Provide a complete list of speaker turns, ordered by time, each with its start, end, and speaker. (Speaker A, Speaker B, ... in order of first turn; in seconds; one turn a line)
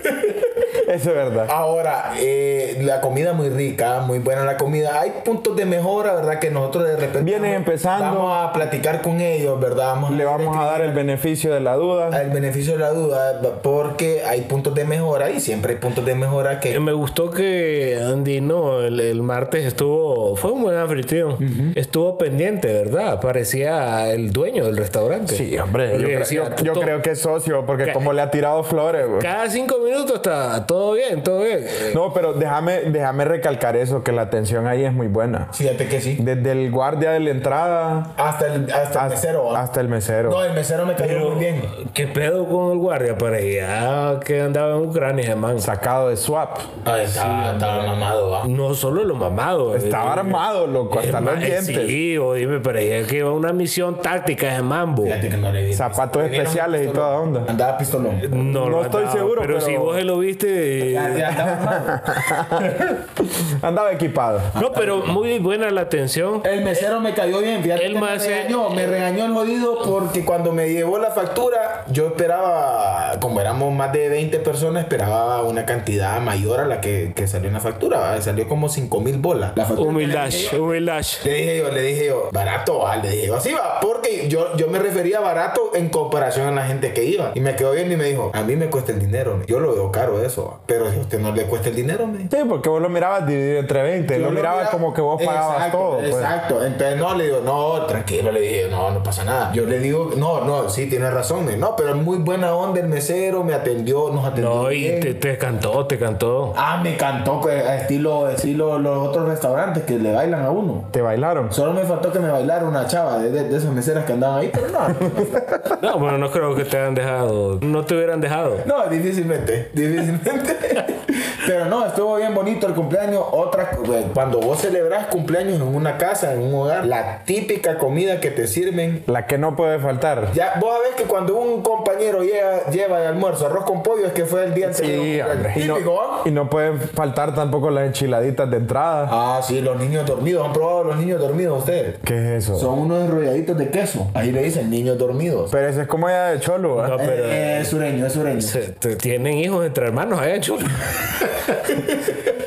Speaker A: 0.8-1.5
Speaker B: 1.5-11.0
Speaker A: 7.2-8.4
Speaker A: 10.1-12.2
Speaker B: 12.1-16.8
Speaker C: 16.7-26.9
Speaker B: 21.4-21.7
Speaker A: 25.3-29.3
Speaker C: 29.1-32.0
Speaker A: 31.9-35.5
Speaker B: 35.5-36.2
Speaker A: 36.2-38.1
Speaker B: 38.1-39.6
Speaker A: 38.9-40.4
Speaker B: 40.2-41.7
Speaker C: 41.0-45.7
Speaker A: 45.6-46.7
Speaker B: 46.8-48.5
Speaker C: 47.0-55.2
Speaker A: 49.7-52.0
Speaker B: 55.0-58.4
Speaker A: 55.7-57.5
Speaker C: 58.2-61.5
Speaker A: 58.5-60.0
Speaker B: 60.8-62.3
Speaker A: 61.5-64.6
Speaker C: 62.6-62.9
Speaker C: 64.5-66.9
Speaker B: 64.6-65.1
Speaker B: 66.4-80.6
Speaker C: 67.8-68.8
Speaker C: 79.8-81.2
Speaker B: 81.2-92.3
Speaker A: 92.3-96.3
Speaker B: 94.1-105.1
Speaker C: 104.3-106.5
Speaker B: 106.5-110.9
Speaker A: 110.9-111.5
Speaker B: 111.5-115.8
Speaker A: 115.0-115.7
Speaker C: 115.8-118.7
Speaker B: 118.6-129.0
Speaker A: 129.1-130.3
Speaker B: 130.3-136.3
Speaker A: 134.6-139.1
Speaker B: 139.1-142.0
Speaker A: 142.0-142.7
Speaker B: 142.5-145.5
Speaker A: 145.5-147.2
Speaker C: 146.8-147.7
Speaker B: 146.9-148.6
Speaker C: 148.4-151.7
Speaker B: 151.7-152.3